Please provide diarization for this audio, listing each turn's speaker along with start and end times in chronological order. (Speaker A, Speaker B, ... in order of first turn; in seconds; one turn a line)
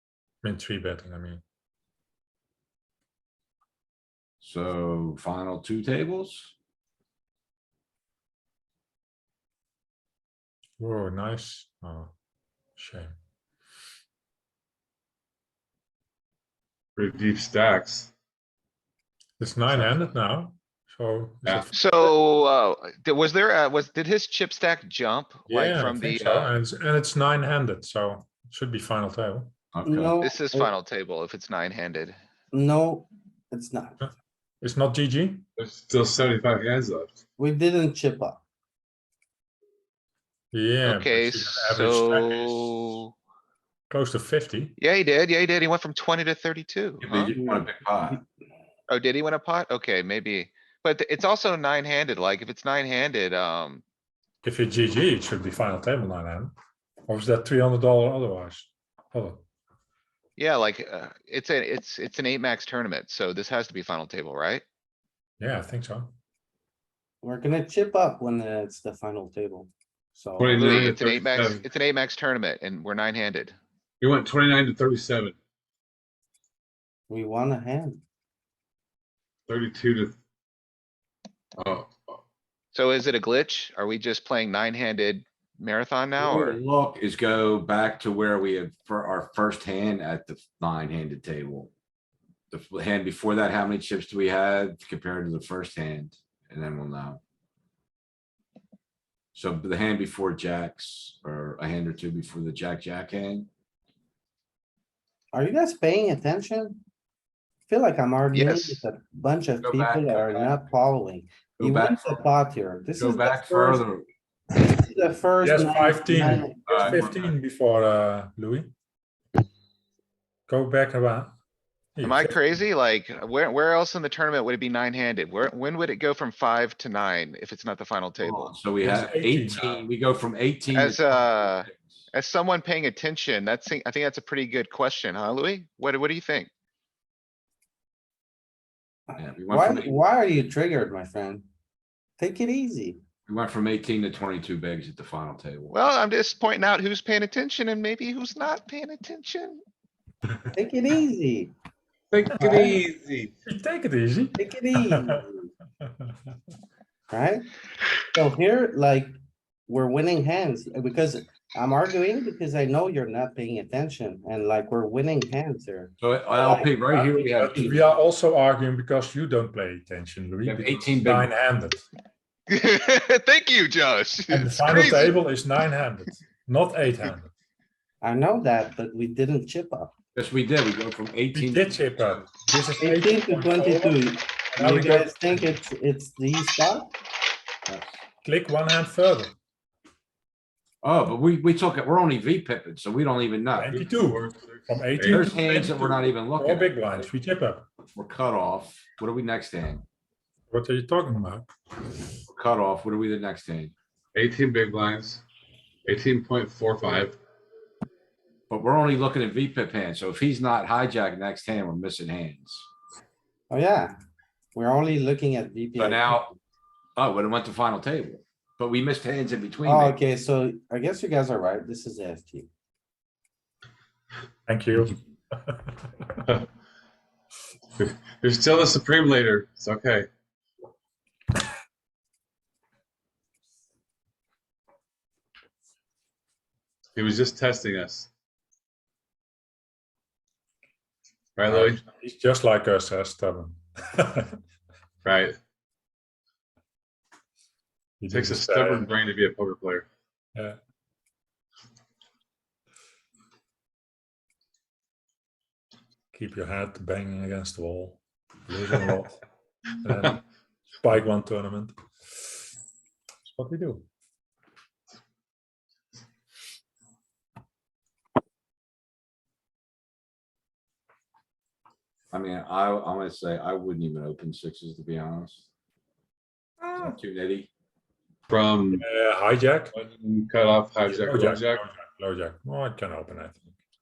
Speaker A: 0.4-1.4
Speaker B: 4.4-6.5
Speaker A: 10.8-12.1
Speaker A: 12.8-13.1
Speaker C: 16.9-18.1
Speaker A: 19.4-21.7
Speaker C: 21.4-22.1
Speaker D: 21.7-26.5
Speaker A: 25.5-29.5
Speaker B: 29.7-30.1
Speaker E: 29.8-30.7
Speaker D: 30.2-32.1
Speaker E: 32.5-34.0
Speaker A: 34.6-35.5
Speaker C: 35.6-37.2
Speaker E: 37.4-38.4
Speaker A: 40.5-43.0
Speaker D: 40.8-43.1
Speaker A: 43.9-44.8
Speaker D: 44.8-47.3
Speaker B: 47.0-48.2
Speaker D: 48.9-53.8
Speaker A: 54.4-56.5
Speaker A: 57.1-59.4
Speaker D: 60.4-64.6
Speaker A: 65.4-66.1
Speaker E: 67.2-70.9
Speaker C: 70.4-71.6
Speaker D: 70.6-73.5
Speaker C: 74.0-75.4
Speaker E: 77.1-78.0
Speaker C: 79.5-80.2
Speaker C: 81.6-82.2
Speaker D: 82.7-86.6
Speaker B: 86.2-91.7
Speaker B: 92.5-97.2
Speaker B: 99.3-103.5
Speaker E: 105.3-106.8
Speaker E: 107.7-113.8
Speaker D: 108.3-108.8
Speaker B: 109.6-110.6
Speaker B: 111.6-112.2
Speaker B: 113.0-114.0
Speaker E: 114.5-117.0
Speaker A: 115.4-118.7
Speaker B: 116.7-117.3
Speaker A: 120.5-121.3
Speaker A: 122.0-122.4
Speaker D: 122.0-128.6
Speaker B: 128.2-132.0
Speaker A: 128.8-129.8
Speaker D: 130.7-136.5
Speaker E: 139.1-141.4
Speaker B: 139.2-140.0
Speaker E: 142.2-143.0
Speaker B: 143.3-145.7
Speaker D: 145.7-149.6
Speaker E: 150.5-151.5
Speaker C: 152.1-153.3
Speaker E: 152.4-152.8
Speaker A: 153.4-155.2
Speaker E: 154.3-155.5
Speaker A: 155.8-156.2
Speaker E: 157.1-157.5
Speaker E: 158.1-159.2
Speaker E: 159.7-167.7
Speaker B: 166.0-167.8
Speaker A: 167.2-171.8
Speaker B: 170.4-171.3
Speaker D: 172.5-175.2
Speaker A: 174.3-177.3
Speaker E: 178.0-179.9
Speaker B: 180.1-181.9
Speaker A: 181.3-185.5
Speaker E: 182.8-186.9
Speaker B: 187.7-188.0
Speaker A: 188.2-189.3
Speaker B: 190.8-193.8
Speaker A: 193.6-197.7
Speaker C: 193.8-195.2
Speaker B: 195.0-196.7
Speaker B: 197.9-199.8
Speaker A: 200.5-201.5
Speaker B: 202.3-203.7
Speaker C: 204.1-205.2
Speaker C: 205.8-207.2
Speaker B: 208.5-212.7
Speaker E: 213.5-213.9
Speaker E: 214.5-216.3
Speaker B: 215.8-216.3
Speaker B: 217.0-220.0
Speaker E: 219.6-222.5
Speaker A: 224.4-225.7
Speaker C: 227.8-230.1
Speaker C: 236.9-238.1
Speaker C: 241.3-241.8
Speaker A: 241.5-244.4
Speaker C: 245.0-245.3
Speaker A: 248.0-248.9
Speaker C: 248.1-249.8
Speaker A: 256.1-259.2
Speaker A: 259.8-260.2
Speaker A: 260.8-261.7
Speaker A: 263.3-263.9
Speaker B: 272.1-275.4
Speaker B: 276.7-277.5
Speaker C: 278.3-278.8
Speaker A: 278.7-279.7
Speaker C: 279.7-281.6
Speaker A: 280.8-283.5